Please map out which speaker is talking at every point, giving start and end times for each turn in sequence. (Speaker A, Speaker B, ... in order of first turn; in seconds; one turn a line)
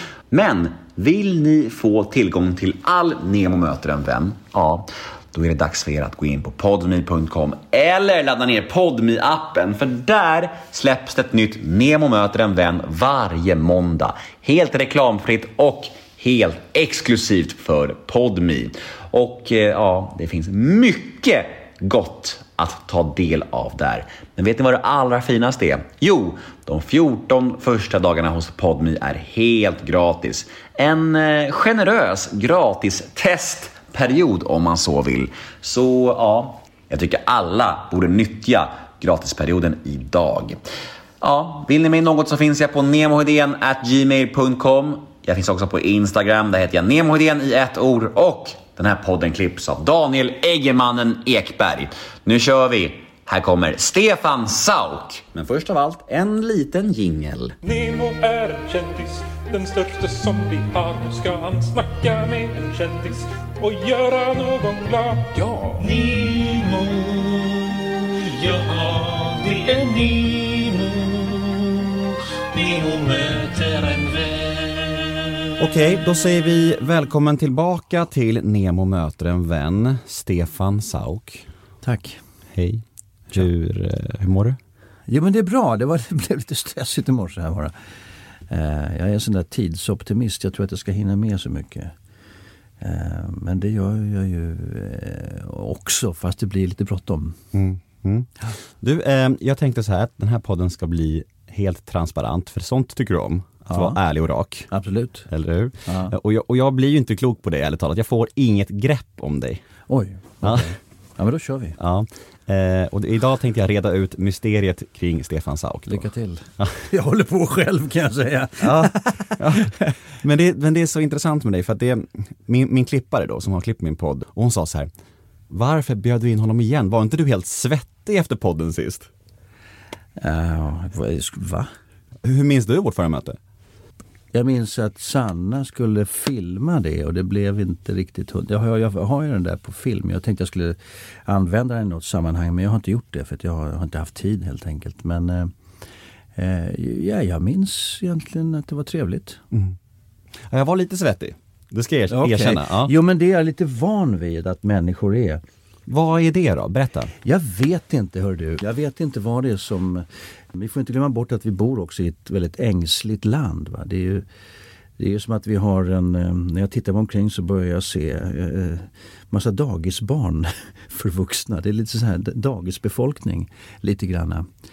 Speaker A: 0.3-40.6
Speaker A: 41.2-57.5
Speaker B: 57.6-65.4
Speaker C: 65.4-75.2
Speaker D: 75.6-81.5
Speaker E: 81.8-82.2
Speaker D: 82.5-84.6
Speaker E: 85.1-87.7
Speaker E: 88.5-91.9
Speaker E: 92.8-97.4
Speaker D: 97.5-104.7
Speaker E: 103.7-104.0
Speaker E: 104.7-105.3
Speaker D: 105.3-109.6
Speaker E: 105.8-106.1
Speaker E: 109.9-111.7
Speaker D: 110.4-110.7
Speaker D: 111.8-116.0
Speaker E: 115.9-119.8
Speaker D: 118.6-119.7
Speaker D: 120.2-124.9
Speaker D: 125.5-129.1
Speaker E: 130.2-131.7
Speaker D: 132.2-133.4
Speaker E: 134.3-145.5
Speaker E: 146.3-149.4
Speaker D: 150.5-152.9
Speaker E: 152.1-155.4
Speaker D: 155.9-157.1
Speaker E: 157.2-164.2
Speaker E: 165.0-174.5